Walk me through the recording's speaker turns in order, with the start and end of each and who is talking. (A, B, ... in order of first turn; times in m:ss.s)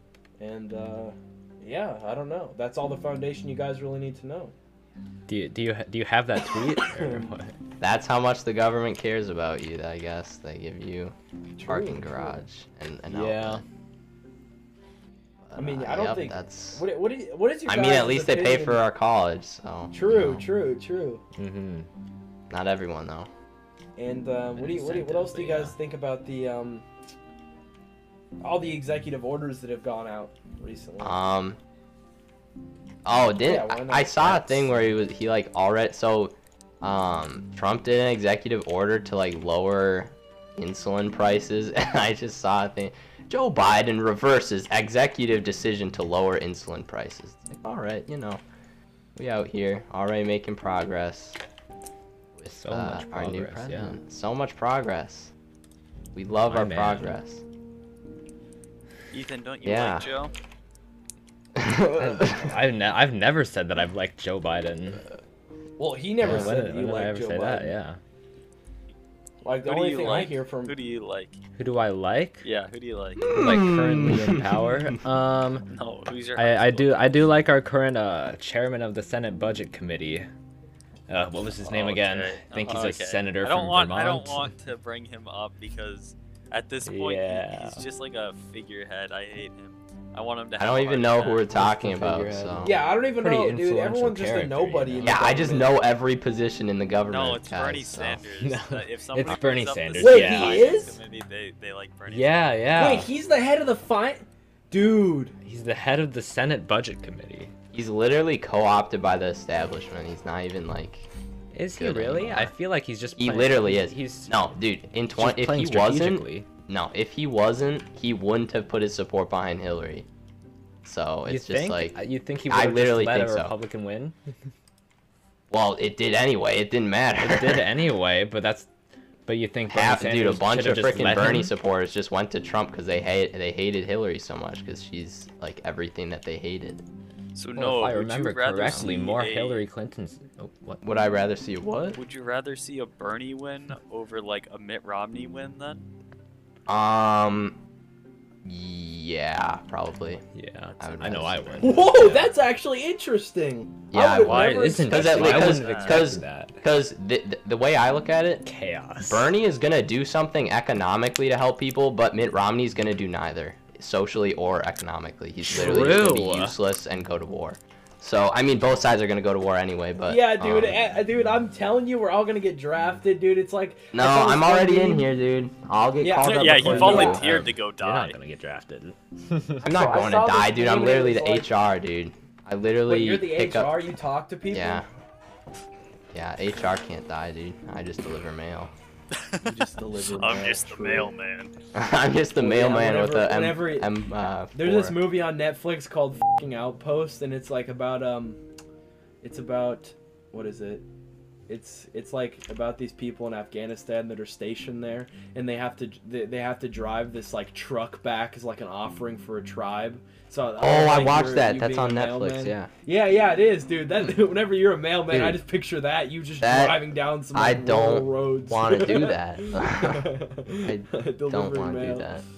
0:00.4-0:04.5 A
0:05.3-0:07.6 B
0:06.8-0:07.3 A
0:07.8-0:13.6 C
0:11.6-0:12.4 A
0:13.1-0:13.6 B
0:15.4-0:16.8 C
0:15.6-0:18.8 A
0:17.7-0:20.5 C
0:19.9-0:21.2 A
0:21.4-0:21.9 B
0:22.5-0:23.3 C
0:24.0-0:26.9 A
0:24.6-0:25.8 B
0:28.4-0:31.2 A
0:31.0-0:31.6 C
0:33.0-0:48.4 C
0:33.4-0:34.4 A
0:49.2-0:51.4 C
0:52.4-0:55.3 C
0:52.5-0:54.0 B
0:56.1-0:57.4 C
0:56.5-0:57.2 B
0:59.1-1:00.3 D
0:59.6-1:00.1 C
1:01.6-1:02.6 C
1:02.0-1:05.0 B
1:05.8-1:07.7 A
1:06.2-1:08.0 B
1:09.4-1:10.8 A
1:09.6-1:11.4 D
1:11.6-1:12.4 B
1:12.4-1:13.3 D
1:13.2-1:15.0 C
1:13.3-1:15.7 B
1:15.7-1:17.0 D
1:16.4-1:20.3 B
1:21.1-1:24.5 B
1:21.6-1:31.4 D
1:26.8-1:27.8 B
1:30.6-1:32.7 C
1:31.5-1:35.2 B
1:32.6-1:35.8 A
1:35.0-1:38.2 C
1:37.1-1:42.6 D
1:38.4-1:40.7 B
1:40.0-1:41.0 A
1:42.1-1:43.1 B
1:42.8-1:45.4 A
1:45.4-1:47.5 B
1:47.7-1:51.1 C
1:51.5-1:54.4 B
1:51.8-1:52.5 C
1:53.2-2:00.1 C
1:55.1-1:56.5 B
2:00.8-2:02.0 C
2:01.3-2:04.2 B
2:02.5-2:03.5 C
2:05.5-2:07.7 C
2:07.2-2:08.7 B
2:09.3-2:11.5 B
2:09.7-2:16.8 C
2:17.4-2:19.6 D
2:17.6-2:20.8 B
2:18.6-2:18.9 C
2:20.8-2:22.0 C
2:22.0-2:25.8 D
2:26.7-2:27.6 C
2:28.4-2:30.2 C
2:30.3-2:32.3 B
2:30.8-2:31.9 C
2:31.6-2:35.4 A
2:33.9-2:38.5 C
2:34.2-2:36.1 D
2:34.3-2:36.6 B
2:38.4-2:39.3 B
2:39.0-2:50.8 C
2:45.4-2:46.6 B
2:50.1-2:55.1 A
2:53.9-2:57.3 C
2:56.0-2:57.2 A
2:56.2-2:58.2 D
2:56.7-2:59.7 B
2:59.6-3:01.5 A
2:59.6-3:03.8 C
3:02.9-3:04.9 A
3:04.5-3:04.9 C
3:06.1-3:08.7 C
3:09.1-3:11.5 D
3:09.5-3:11.1 A
3:11.7-3:15.0 C
3:12.4-3:13.9 A
3:14.5-3:18.4 A
3:19.2-3:20.8 A
3:21.5-3:42.2 A
3:30.6-3:32.7 C
3:35.1-3:35.4 C
3:36.4-3:40.1 C
3:40.6-3:42.2 C